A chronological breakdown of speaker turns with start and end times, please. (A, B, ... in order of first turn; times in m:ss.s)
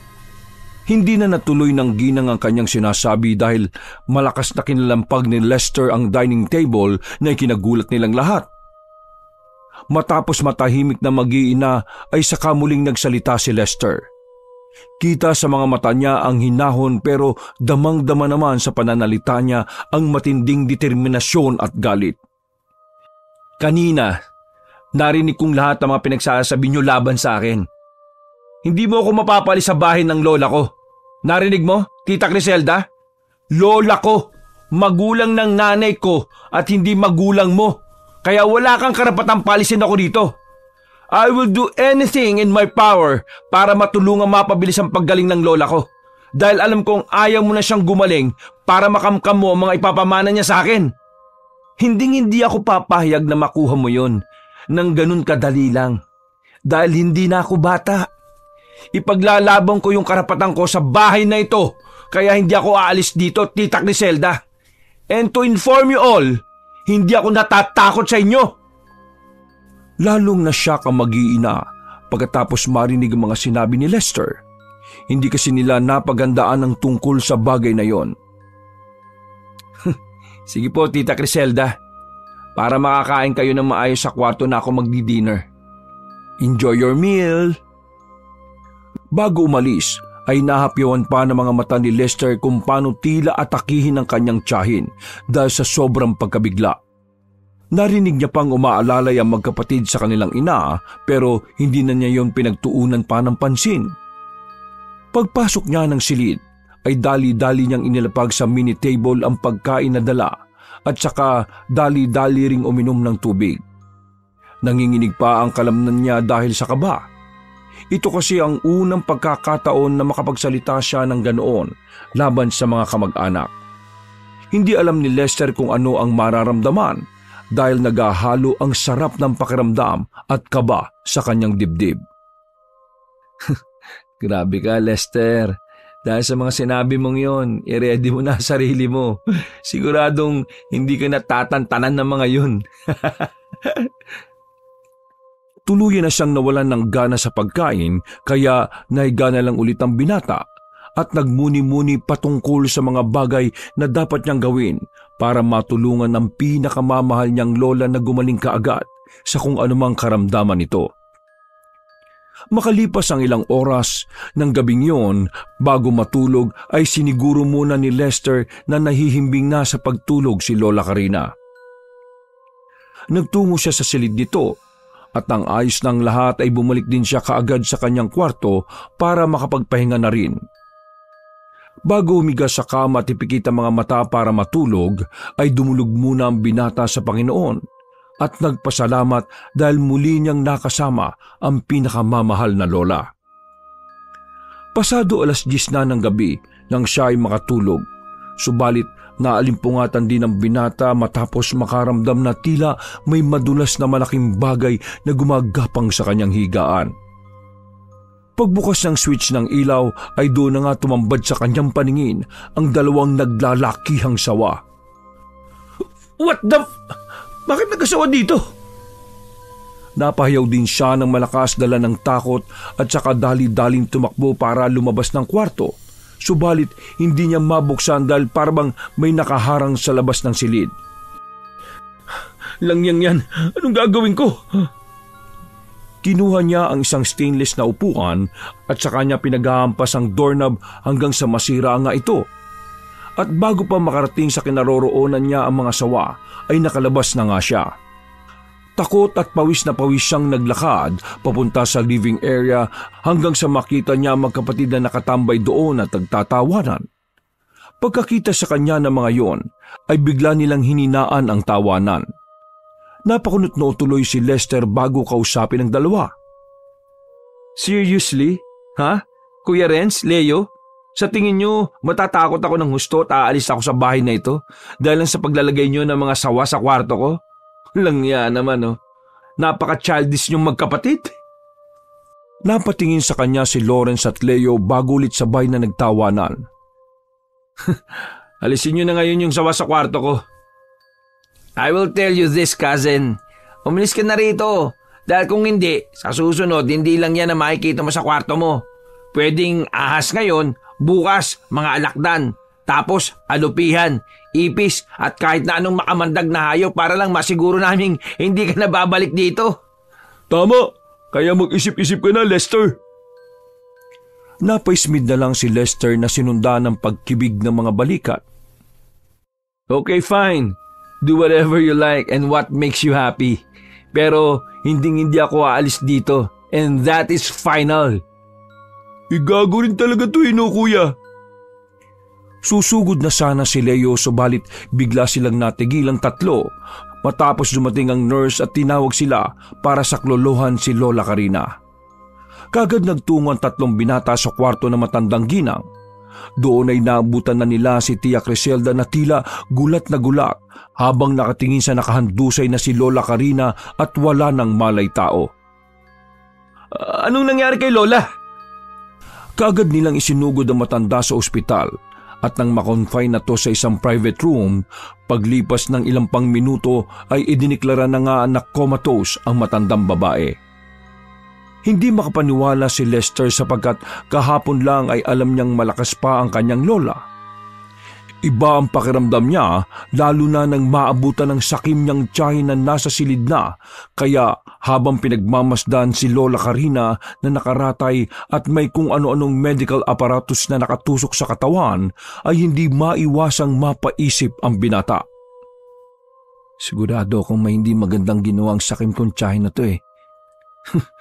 0:00.9-0:08.5 A
0:09.9-0:14.0 A
0:15.0-0:22.2 A
0:23.6-0:24.2 B
0:25.0-0:27.7 B
0:28.6-0:30.7 B
0:31.2-0:32.9 B
0:33.5-0:40.3 B
0:41.1-0:50.9 B
0:51.8-0:54.2 B
0:54.7-0:56.0 B
0:56.7-0:58.1 B
0:58.9-1:04.4 B
1:05.1-1:08.5 B
1:10.0-1:14.4 A
1:15.1-1:18.1 A
1:20.5-1:21.8 B
1:22.6-1:25.5 B
1:26.4-1:27.5 A
1:27.0-1:27.4 B
1:29.1-1:36.8 A
1:37.8-1:43.9 A
1:45.1-1:50.3 A
1:50.9-1:53.6 A
1:54.6-1:57.0 A
1:57.9-2:03.5 A
2:04.5-2:07.0 A
2:07.5-2:12.0 A
2:14.2-2:23.9 B
2:25.7-2:30.4 A
2:31.0-2:40.9 A
2:42.5-2:51.3 A
2:53.1-2:54.5 A
2:55.2-3:00.4 A
3:01.9-3:07.6 A
3:08.2-3:13.1 A
3:14.8-3:17.8 A
3:18.4-3:26.9 A
3:28.4-3:34.6 A
3:36.2-3:36.6 B
3:37.5-3:38.4 B
3:40.0-3:50.7 A
3:52.6-3:54.6 A
3:56.0-4:02.2 A
4:03.2-4:07.7 A
4:08.8-4:16.8 A
4:17.8-4:22.0 A
4:23.1-4:26.1 A
4:27.6-4:37.2 B
4:37.8-4:38.8 B
4:39.4-4:41.1 B
4:42.5-4:46.4 A
4:48.4-4:50.2 B
4:51.6-4:58.6 B
4:59.1-5:09.6 B
5:10.3-5:12.8 A
5:14.4-5:18.2 A
5:19.7-5:23.4 B
5:23.9-5:28.0 B
5:29.1-5:30.9 A
5:32.5-5:36.5 A
5:37.0-5:41.5 A
5:42.5-5:45.6 A
5:46.4-5:55.3 A
5:56.7-5:58.0 B
5:59.4-6:01.7 A
6:02.2-6:10.4 A
6:11.7-6:17.0 A
6:18.2-6:35.0 A
6:36.6-6:39.8 B